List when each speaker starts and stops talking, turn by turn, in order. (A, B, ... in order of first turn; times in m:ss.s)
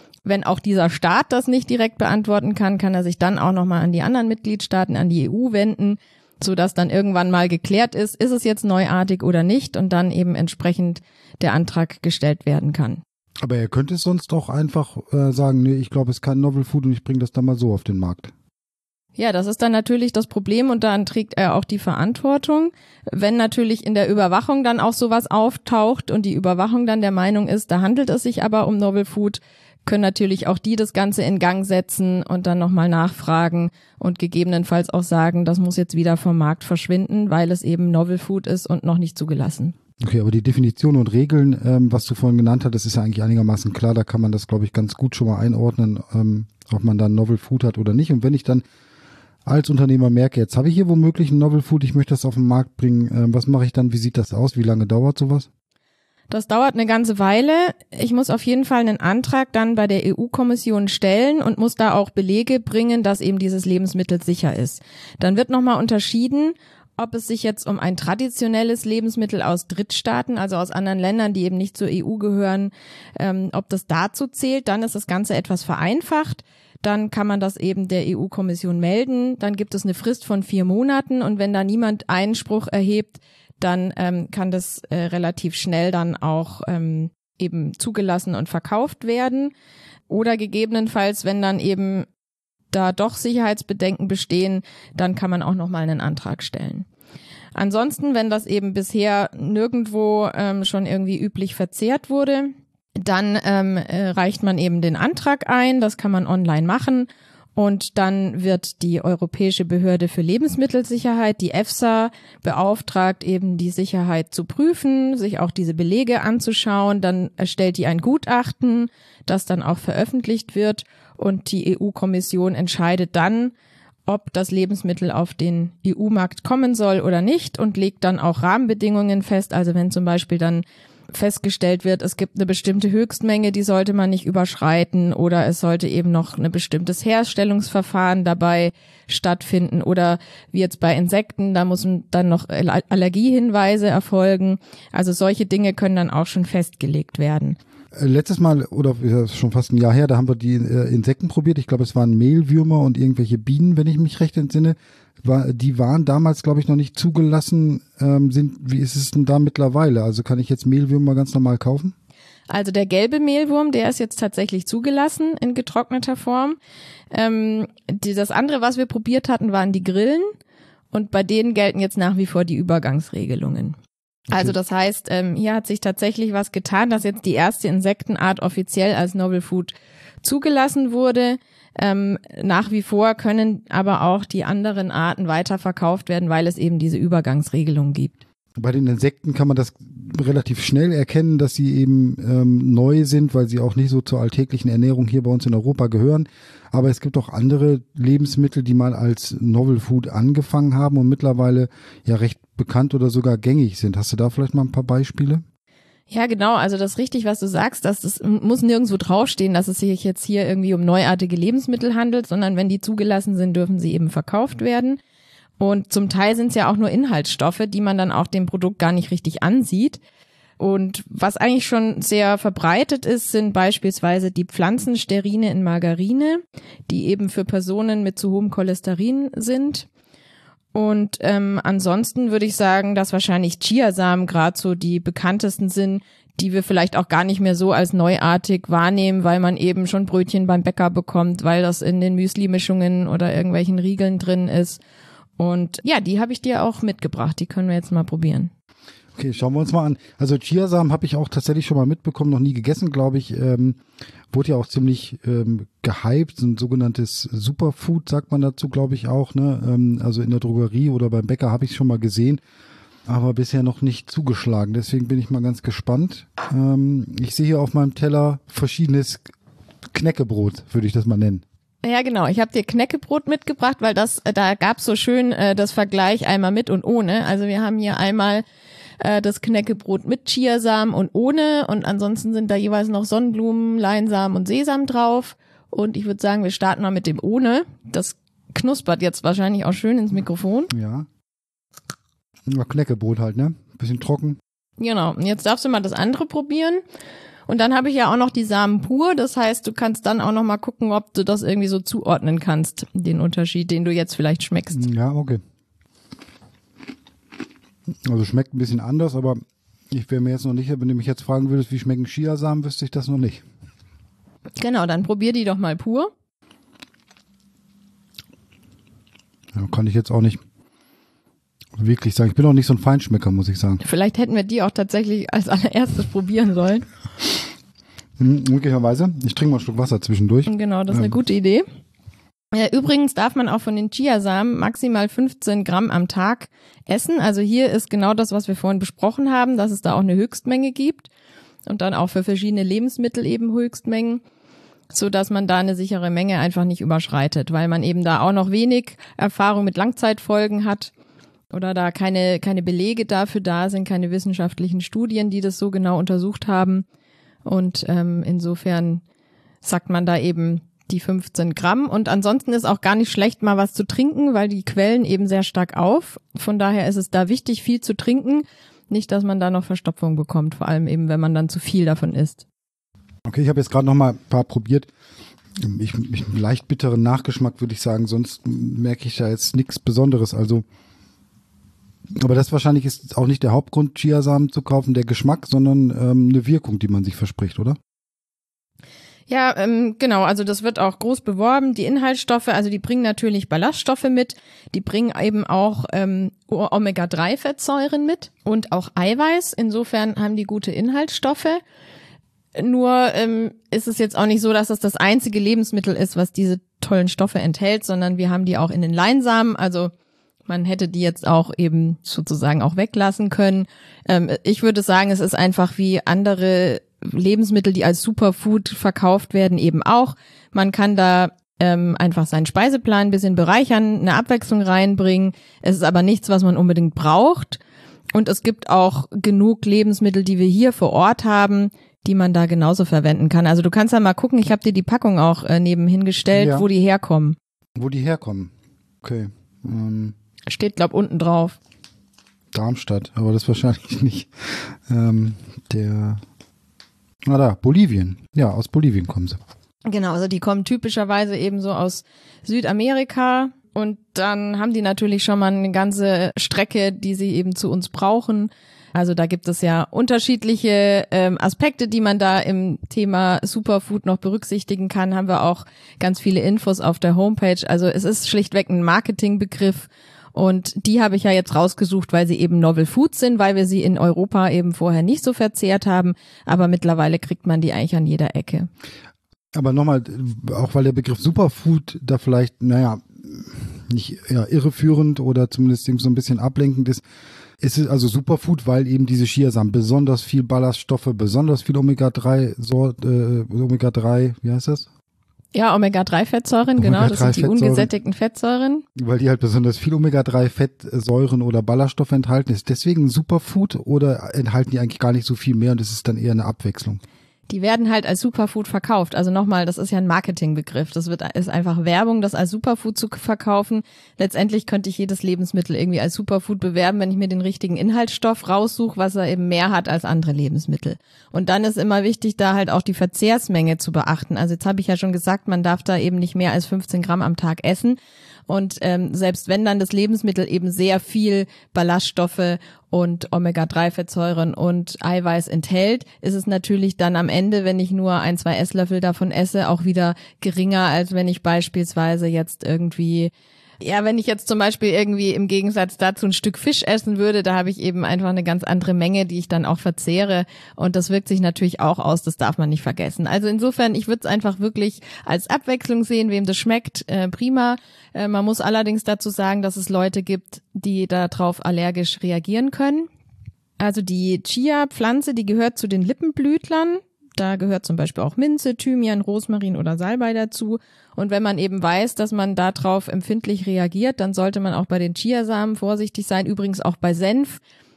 0:00.2-0:13.0 A
0:13.4-0:18.3 B
0:19.2-0:39.7 A
0:40.0-0:48.6 B
0:49.4-0:55.5 B
0:56.3-1:29.5 A
1:30.1-1:32.1 A
1:32.7-1:36.8 A
1:37.5-2:03.5 A
2:04.1-2:27.6 A
2:27.9-2:41.9 B
2:42.5-2:46.6 A
2:47.1-2:50.3 A
2:50.9-2:53.8 A
2:54.3-3:08.2 A
3:08.6-3:25.4 B
3:26.1-3:35.0 A
3:35.6-3:40.0 A
3:40.6-3:49.9 A
3:50.7-4:04.8 A
4:05.4-4:08.5 A
4:09.2-4:13.8 B
4:14.3-4:22.4 B
4:23.0-4:29.2 B
4:29.9-4:31.4 B
4:31.8-4:38.4 A
4:39.0-4:50.7 A
4:50.7-4:51.1 B
4:52.5-4:54.4 B
4:54.8-4:56.8 A
4:57.5-5:04.8 A
5:04.7-5:05.4 B
5:08.0-5:13.4 B
5:14.6-5:16.1 A
5:19.5-5:20.4 B
5:21.8-5:23.8 B
5:23.8-5:26.8 A
5:28.2-5:31.1 B
5:30.5-5:31.6 A
5:32.5-5:41.1 A
5:41.6-5:44.2 A
5:44.9-5:50.9 A
5:51.5-5:56.8 A
5:57.4-5:59.0 A
5:59.6-6:12.4 A
6:13.2-6:14.9 B
6:15.6-6:20.6 B
6:22.2-6:27.8 B
6:29.3-6:41.6 A
6:42.6-6:49.9 A
6:50.5-7:07.6 A
7:08.1-7:17.4 A
7:16.3-7:16.7 B
7:17.8-7:18.5 B
7:19.0-7:20.1 B
7:20.5-7:21.6 A
7:22.5-7:26.2 B
7:27.2-7:29.4 B
7:29.8-7:58.7 A
7:59.5-8:07.0 B
8:07.6-8:14.9 B
8:15.5-8:18.8 A
8:16.8-8:17.9 B
8:19.0-8:27.0 B
8:27.5-8:48.0 A
8:48.5-9:23.1 A
9:23.8-9:37.6 A